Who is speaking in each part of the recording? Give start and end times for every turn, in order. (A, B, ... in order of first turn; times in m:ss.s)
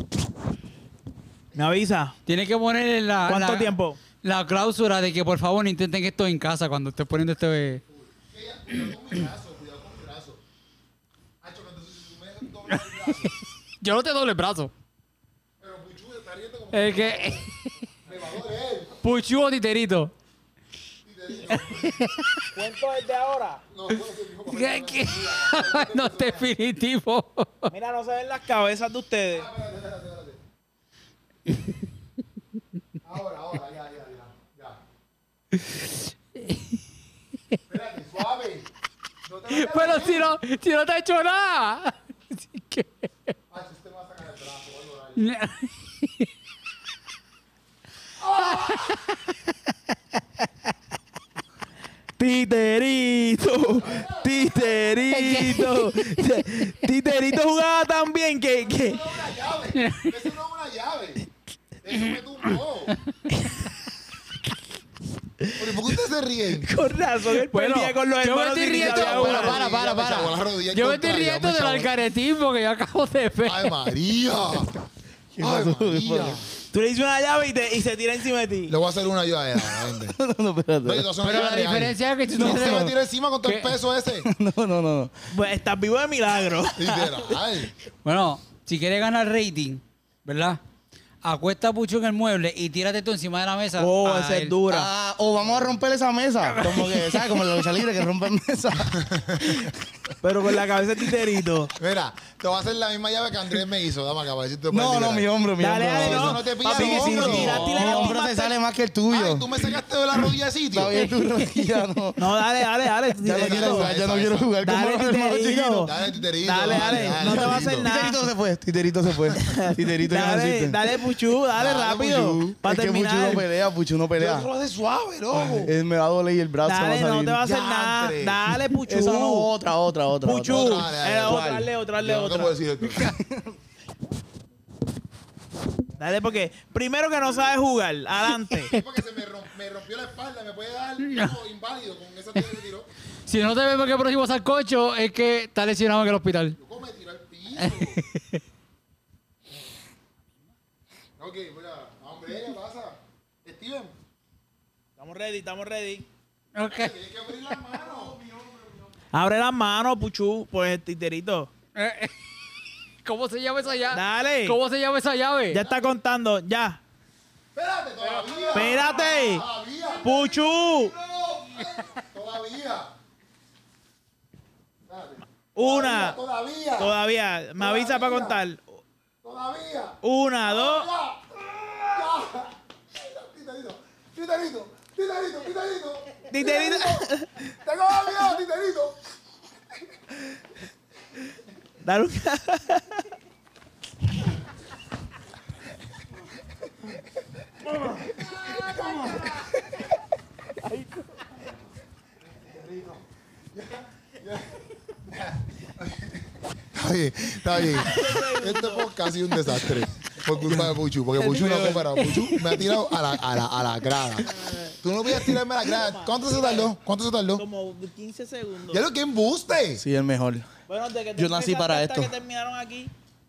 0:01.5-0:02.1 A
0:02.2-0:07.8 B
0:03.2-0:04.0 A
0:07.9-0:10.4 C
0:11.4-0:13.3 C
0:12.7-0:13.1 B
0:13.8-0:14.7 B
0:15.6-0:17.4 C
0:16.7-0:17.4 B
0:18.0-0:19.0 C
0:19.0-0:20.1 B
0:21.0-0:22.1 C
0:21.7-0:22.5 B
0:22.5-0:23.6 A
0:23.7-0:26.5 C
0:24.5-0:27.7 B
0:27.7-0:29.5 A
0:29.3-0:30.4 C
0:33.0-0:34.8 C
0:37.7-0:38.7 C
0:39.2-0:40.4 C
0:39.5-0:42.9 B
0:43.5-0:45.3 C
0:45.2-0:46.3 B
0:48.2-0:49.0 C
0:48.7-0:49.1 B
0:52.2-0:59.2 A
0:53.8-0:55.5 C
0:55.5-0:55.9 B
0:58.6-1:01.2 C
0:59.7-1:00.1 B
1:01.8-1:03.0 C
1:05.4-1:05.9 A
1:05.6-1:06.7 C
1:06.5-1:09.6 A
1:07.4-1:13.9 B
1:08.7-1:11.9 C
1:13.4-1:14.7 C
1:15.3-1:16.4 D
1:15.4-1:16.4 C
1:16.7-1:18.8 A
1:18.7-1:20.2 C
1:19.7-1:21.1 D
1:20.8-1:24.3 C
1:21.2-1:22.9 B
1:22.4-1:22.9 D
1:23.4-1:23.7 B
1:24.2-1:25.1 D
1:25.3-1:27.4 A
1:26.8-1:27.7 C
1:28.0-1:30.6 B
1:31.2-1:34.6 B
1:33.8-1:34.9 A
1:34.7-1:39.7 D
1:36.6-1:37.1 B
1:38.9-1:39.7 C
1:40.2-1:41.7 A
1:41.7-1:45.3 C
1:44.7-1:49.5 D
1:45.6-1:48.5 A
1:46.0-1:47.7 C
1:47.3-1:48.1 B
1:49.1-1:51.0 C
1:50.7-1:52.4 D
1:52.2-1:53.9 A
1:53.2-1:55.9 D
1:53.3-1:54.5 C
1:54.6-1:58.2 A
1:55.8-1:57.9 C
1:56.6-2:01.0 D
1:59.3-2:03.4 A
2:01.6-2:02.4 C
2:01.6-2:04.5 D
2:04.2-2:05.7 C
2:05.3-2:07.4 D
2:06.6-2:09.5 A
2:07.4-2:08.4 C
2:08.8-2:11.7 D
2:10.2-2:12.6 A
2:10.4-2:11.4 C
2:12.0-2:13.1 C
2:13.2-2:13.5 D
2:16.0-2:18.7 A
2:18.7-2:22.9 C
2:21.0-2:21.3 B
2:23.2-2:26.6 B
2:26.6-2:28.0 C
2:27.6-2:28.4 B
2:31.2-2:33.9 C
2:35.0-2:36.1 A
2:36.5-2:36.9 B
2:36.6-2:38.2 C
2:39.1-2:41.5 A
2:41.8-2:42.1 B
2:43.0-2:45.6 B
2:43.9-2:44.6 A
2:45.5-2:46.8 A
2:47.5-2:52.9 C
2:48.5-2:49.4 A
2:50.0-2:50.9 A
2:51.8-2:52.0 B
2:54.9-2:57.0 C
2:55.5-2:56.2 A
2:56.8-2:58.8 A
2:57.6-2:58.4 C
2:59.2-3:09.0 C
3:00.0-3:00.9 A
3:06.3-3:07.4 A
3:11.8-3:13.1 A
3:18.0-3:19.8 C
3:20.6-3:21.3 A
3:22.3-3:23.0 C
3:23.5-3:37.4 C
3:27.7-3:28.9 A
3:30.4-3:30.8 D
3:31.3-3:31.9 D
3:31.3-3:31.7 A
3:32.0-3:32.8 B
3:34.3-3:34.8 A
3:35.6-3:36.7 A
3:37.4-3:38.8 A
3:38.7-3:39.8 C
3:39.7-3:40.5 D
3:40.7-3:42.9 A
3:41.2-3:42.1 D